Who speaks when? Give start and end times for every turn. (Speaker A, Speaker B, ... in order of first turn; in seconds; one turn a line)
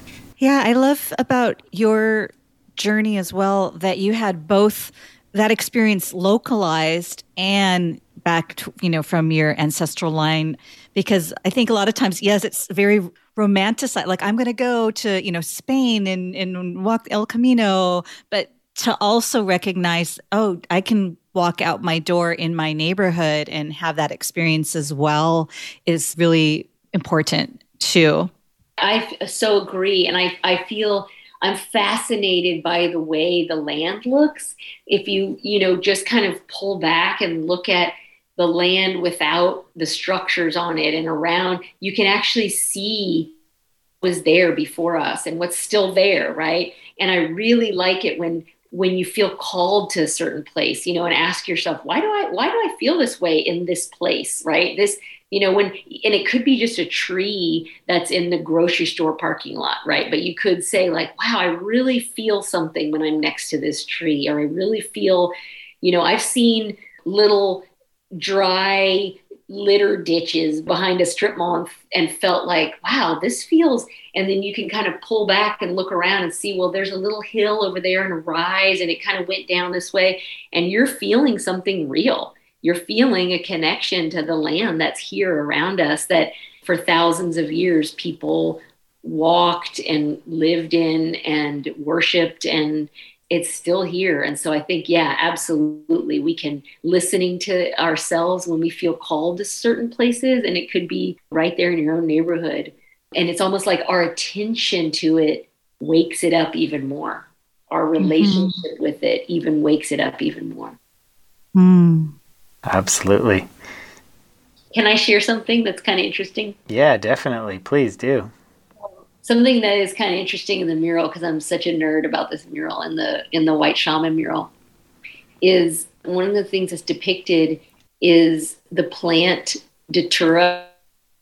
Speaker A: 0.4-28.3
Speaker B: 28.8-43.3
Speaker B: 44.0-110.8
Speaker A: 108.0-108.6
Speaker A: 111.5-112.1
Speaker C: 112.7-113.5
Speaker B: 114.7-116.6
Speaker C: 116.7-118.3
Speaker B: 119.2-124.5
Speaker B: 125.4-130.7